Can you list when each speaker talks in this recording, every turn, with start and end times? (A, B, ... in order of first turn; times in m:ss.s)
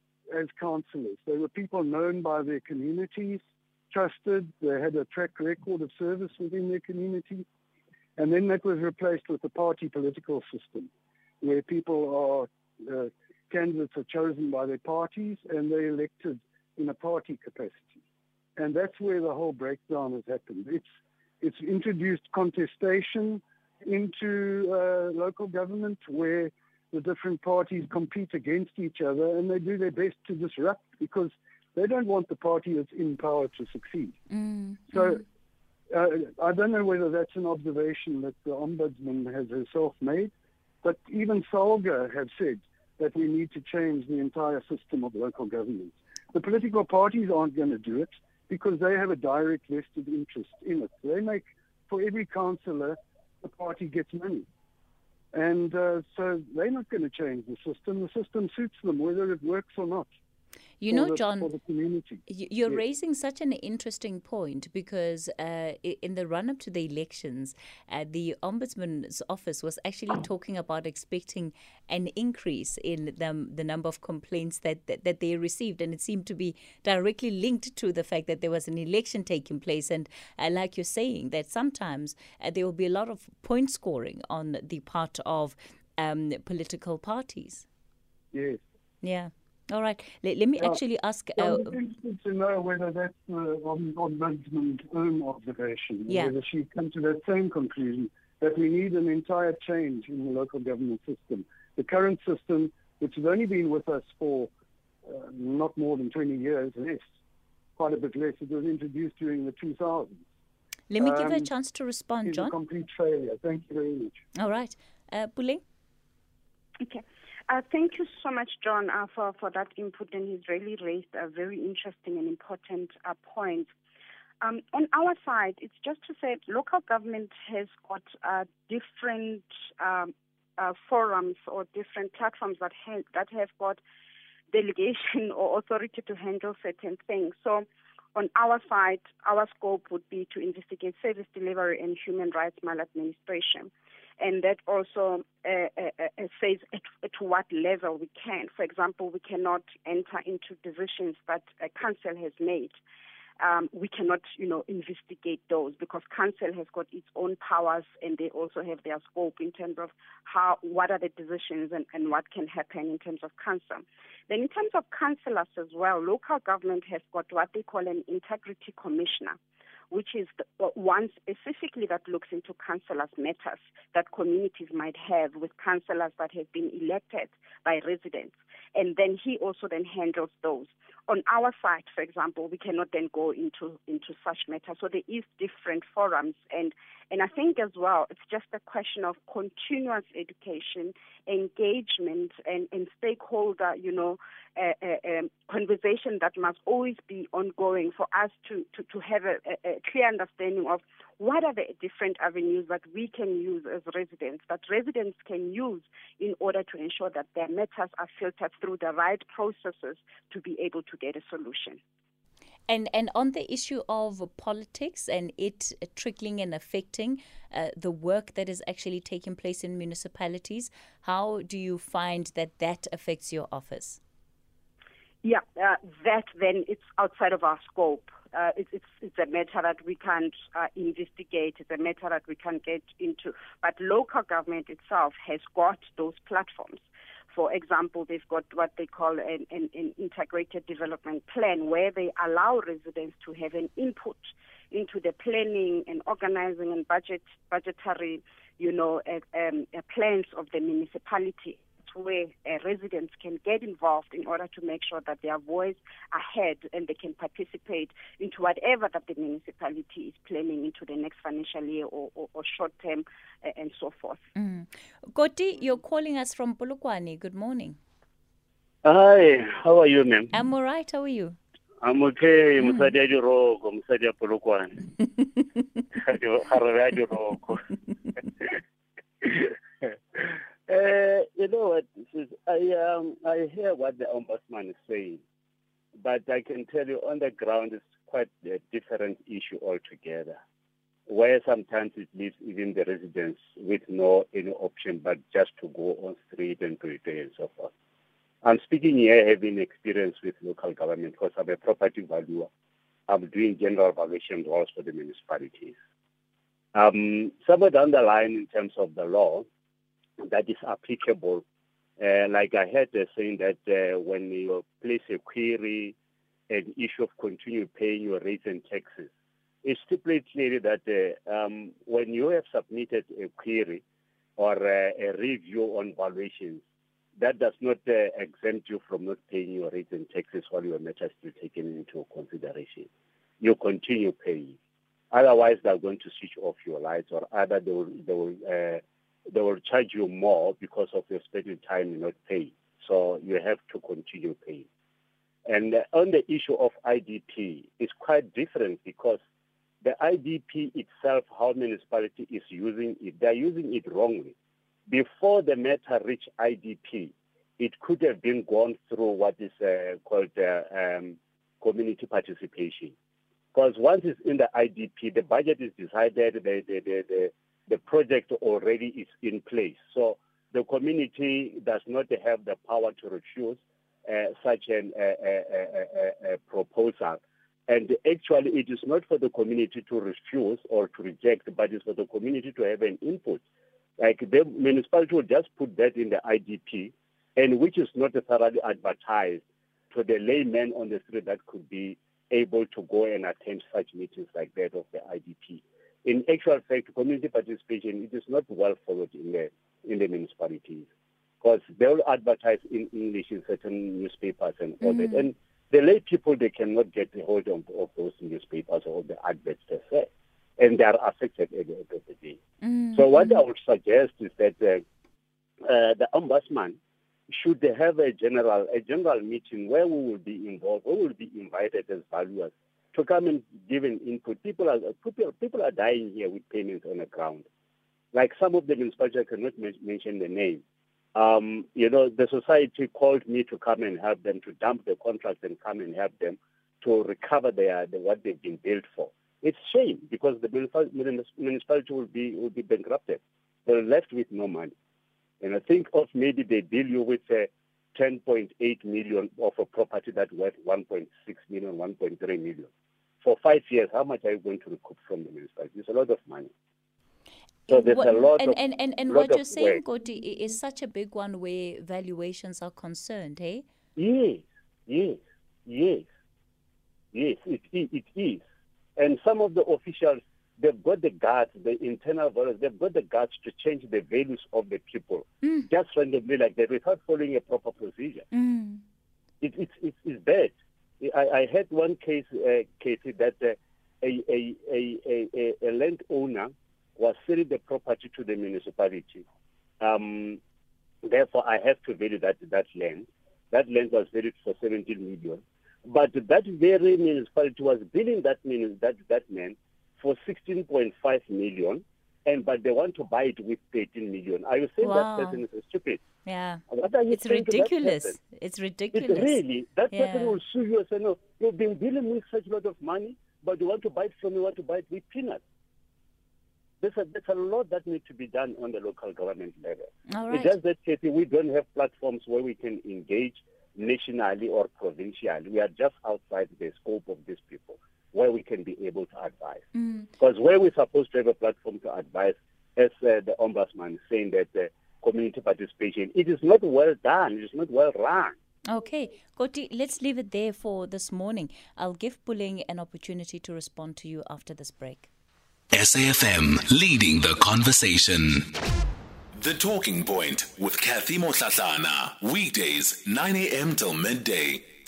0:00.3-0:07.5 A
0:08.2-0:10.9 A
0:11.4-0:18.0 A
0:18.6-0:20.8 A
0:21.4-0:34.2 A
0:34.3-0:35.2 B
0:34.9-0:35.2 A
0:35.9-0:40.3 A
0:40.8-0:54.5 A
0:55.3-1:00.1 A
1:00.8-1:01.5 B
1:00.9-1:02.8 A
1:02.3-1:27.7 B
1:28.3-1:28.6 A
1:29.0-1:31.8 B
1:31.4-1:44.5 A
1:36.1-1:36.3 B
1:45.0-1:47.1 A
1:47.8-1:50.2 A
1:50.9-1:52.6 B
1:51.0-1:51.5 A
1:52.2-1:54.2 A
1:54.4-1:55.6 B
1:56.8-2:03.7 C
2:04.4-2:13.8 C
2:14.5-2:32.8 C
2:33.4-2:49.4 C
2:49.9-3:31.8 C
3:32.7-3:44.0 B
3:45.2-4:24.2 C
4:24.4-4:27.8 B
4:28.8-4:30.3 D
4:30.3-4:31.4 B
4:31.8-4:34.8 D
4:36.0-4:37.7 D
4:39.2-4:45.2 D
4:46.0-4:50.4 D
4:51.1-4:57.7 D
4:58.4-5:02.5 D
5:03.1-5:05.8 D
5:06.7-5:09.5 D
5:10.2-5:11.4 D
5:12.0-5:16.0 D
5:16.5-5:19.1 D
5:19.6-5:23.8 D
5:24.4-5:26.6 D
5:27.2-5:32.9 D
5:33.4-5:34.6 D
5:35.1-5:44.7 D
5:45.5-5:49.2 D
5:49.8-5:54.4 D
5:54.9-6:03.0 D
6:03.5-6:23.4 D
6:24.0-6:40.9 D
6:41.4-6:52.4 D
6:44.8-6:45.3 B
6:52.6-6:53.4 B
6:52.9-6:54.8 D
6:55.7-6:56.8 D
6:57.3-7:07.5 D
7:08.1-7:10.6 D
7:11.2-7:24.7 D
7:25.4-7:32.7 D
7:33.2-7:36.5 D
7:37.7-7:43.7 B
7:37.7-7:38.6 D
7:39.1-7:39.8 D
7:44.0-7:46.1 D
7:47.1-7:48.4 D
7:49.0-7:58.3 D
7:55.4-7:55.7 B
7:58.3-7:58.8 B
7:59.4-8:09.2 D
8:09.8-8:10.4 D
8:11.0-8:26.0 D
8:24.8-8:25.4 B
8:26.2-8:30.4 B
8:26.7-8:28.2 D
8:28.9-8:35.4 D
8:36.8-8:49.7 D
8:40.1-8:40.6 B
8:49.8-8:50.1 B
8:50.2-8:58.3 D
8:58.7-9:05.1 B
9:05.7-9:08.6 E
9:09.3-9:14.7 E